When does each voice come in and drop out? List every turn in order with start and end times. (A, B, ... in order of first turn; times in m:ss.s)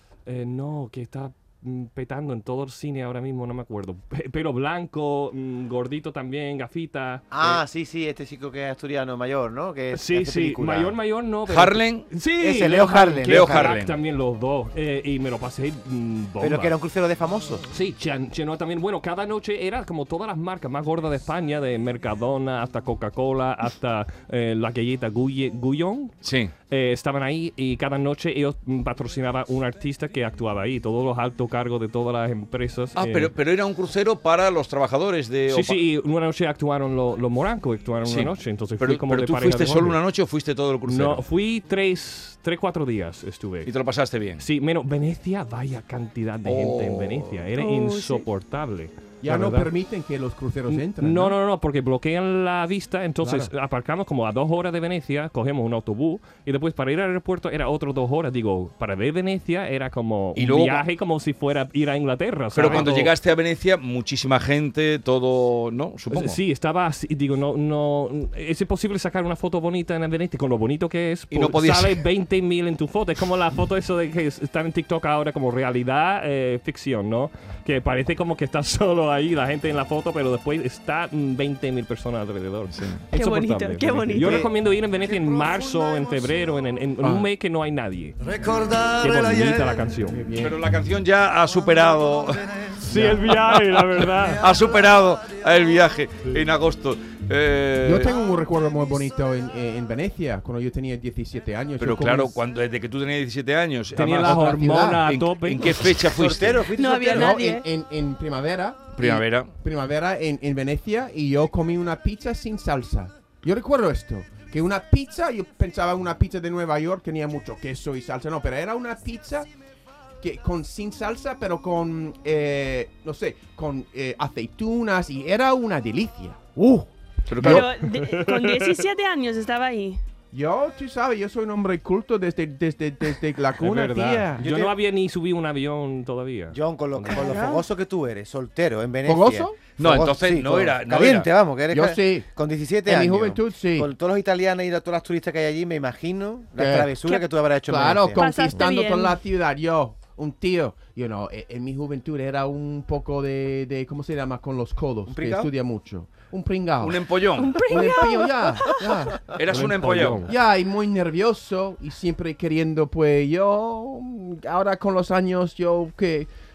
0:00.2-0:07.5 A
0:07.3-0:11.0 B
0:09.9-0:16.7 A
0:11.5-0:12.0 C
0:12.4-0:13.7 B
0:13.2-0:14.0 C
0:16.4-0:17.6 B
0:17.7-0:26.1 A
0:26.2-0:26.5 C
0:26.7-0:33.3 A
0:33.0-0:35.8 C
0:35.5-0:40.0 A
0:38.0-0:41.2 C
0:40.8-0:43.7 A
0:43.6-0:44.4 C
0:44.4-0:49.7 A
0:46.4-0:47.4 C
0:47.6-0:48.2 D
0:49.2-0:51.4 E
0:50.7-1:03.1 A
0:53.2-0:53.5 B
1:00.3-1:00.8 C
1:02.5-1:06.4 C
1:06.1-1:28.2 A
1:11.3-1:12.0 C
1:22.7-1:23.0 C
1:23.1-1:24.5 D
1:24.2-1:24.5 E
1:27.0-1:27.3 E
1:28.2-1:38.1 C
1:29.0-1:30.2 A
1:30.1-1:30.6 E
1:32.8-1:34.5 A
1:32.9-1:33.2 E
1:37.8-1:42.4 E
1:41.8-1:46.7 C
1:43.9-1:45.7 A
1:44.2-1:45.1 E
1:46.0-1:47.4 B
1:46.7-1:47.6 D
1:47.0-1:59.5 E
1:48.9-1:49.5 C
2:00.2-2:07.6 E
2:07.3-2:07.7 C
2:07.4-2:10.0 D
2:07.7-2:08.8 A
2:10.3-2:14.5 E
2:13.6-2:17.3 A
2:14.4-2:14.7 B
2:16.5-2:28.2 B
2:17.1-2:17.6 D
2:19.0-2:19.6 E
2:19.8-2:21.3 C
2:21.7-2:22.3 E
2:22.8-2:23.9 E
2:26.6-2:27.0 E
2:27.7-2:46.3 E
2:28.2-2:29.2 D
2:35.1-2:35.5 B
2:36.8-2:37.7 C
2:37.4-2:38.8 D
2:39.3-2:40.3 C
2:39.5-2:40.3 A